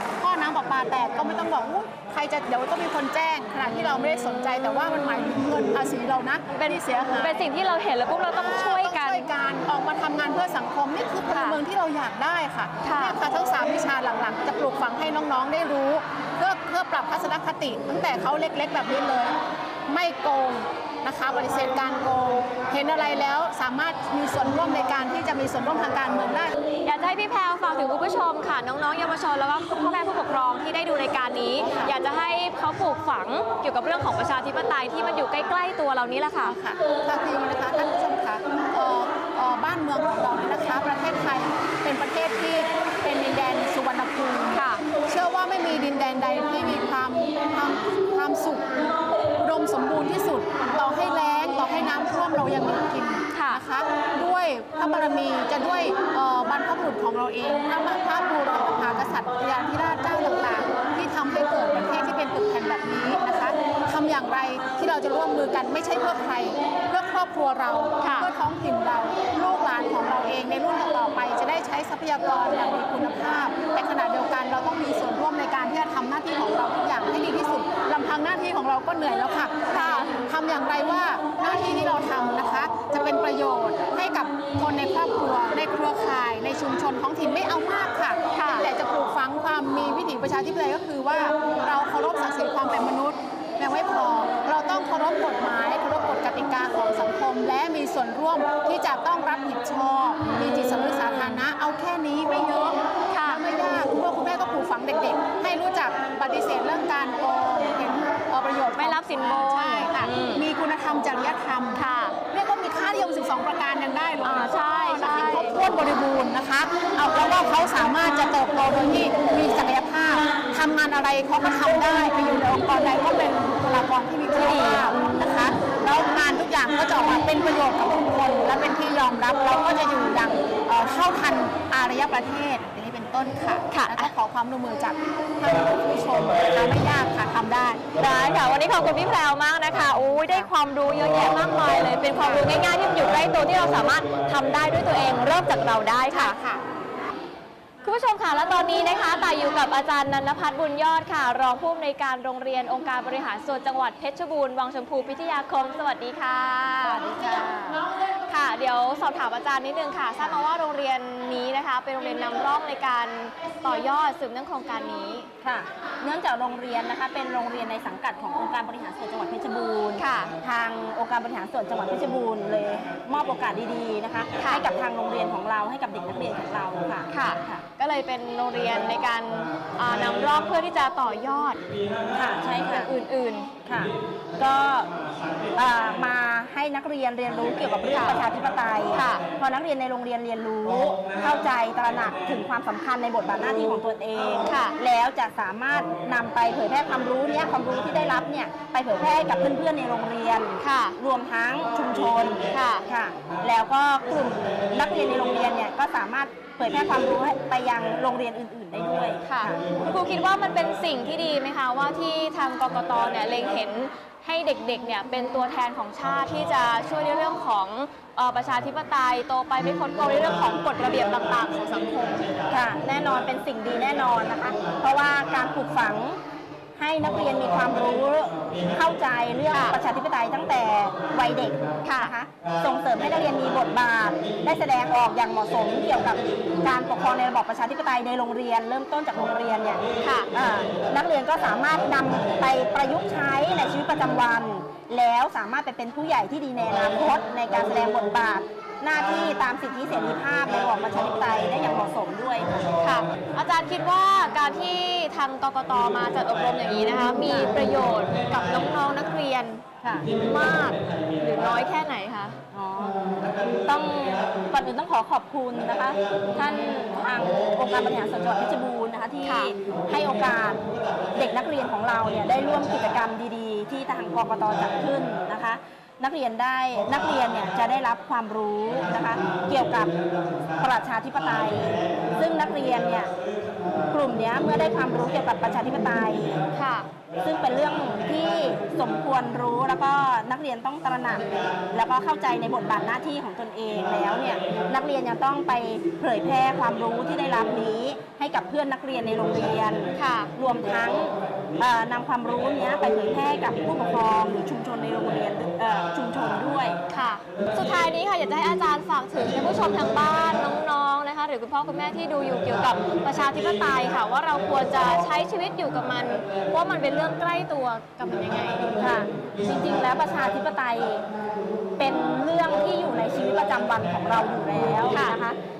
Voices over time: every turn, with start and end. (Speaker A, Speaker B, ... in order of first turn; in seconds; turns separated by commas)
Speaker A: 0.2-7.5, Speaker B: 3.8-4.1, Speaker B: 6.5-9.3, Speaker A: 8.3-26.6, Speaker B: 11.3-11.6, Speaker B: 12.8-13.2, Speaker B: 26.8-36.5, Speaker A: 31.6-31.9, Speaker A: 36.4-111.8, Speaker B: 44.5-44.8, Speaker B: 53.3-53.6, Speaker B: 68.0-68.3, Speaker B: 79.7-80.2, Speaker B: 88.3-88.7, Speaker B: 100.2-101.2, Speaker B: 103.1-103.4, Speaker B: 108.8-110.4, Speaker B: 111.8-112.2, Speaker A: 112.3-137.8, Speaker B: 114.2-115.6, Speaker B: 124.4-125.3, Speaker B: 133.7-134.1, Speaker B: 138.0-146.3, Speaker A: 139.7-140.5, Speaker A: 142.2-142.5, Speaker A: 146.1-146.6, Speaker B: 147.8-157.0, Speaker C: 156.8-157.9, Speaker B: 158.3-165.3, Speaker C: 165.4-177.6, Speaker B: 170.0-170.3, Speaker B: 174.4-174.6, Speaker B: 177.1-181.6, Speaker C: 182.1-182.9, Speaker B: 182.7-183.5, Speaker C: 183.6-184.9, Speaker C: 185.5-209.6, Speaker B: 187.9-188.2, Speaker B: 188.9-189.2, Speaker B: 194.4-194.8, Speaker B: 200.6-201.0, Speaker B: 202.5-202.9, Speaker B: 209.2-222.3, Speaker C: 222.5-226.2, Speaker C: 226.8-252.6, Speaker B: 229.5-229.8, Speaker B: 231.8-232.1, Speaker B: 240.0-240.3, Speaker B: 252.8-262.4, Speaker C: 257.2-257.5, Speaker C: 262.5-263.0, Speaker C: 263.6-270.6, Speaker B: 269.2-269.5, Speaker C: 271.1-279.9, Speaker C: 280.6-283.1, Speaker C: 283.9-286.4, Speaker B: 286.5-286.9, Speaker C: 287.2-306.8, Speaker B: 299.9-300.3, Speaker B: 306.9-318.7, Speaker C: 318.8-321.0, Speaker C: 321.8-325.4, Speaker B: 324.9-325.2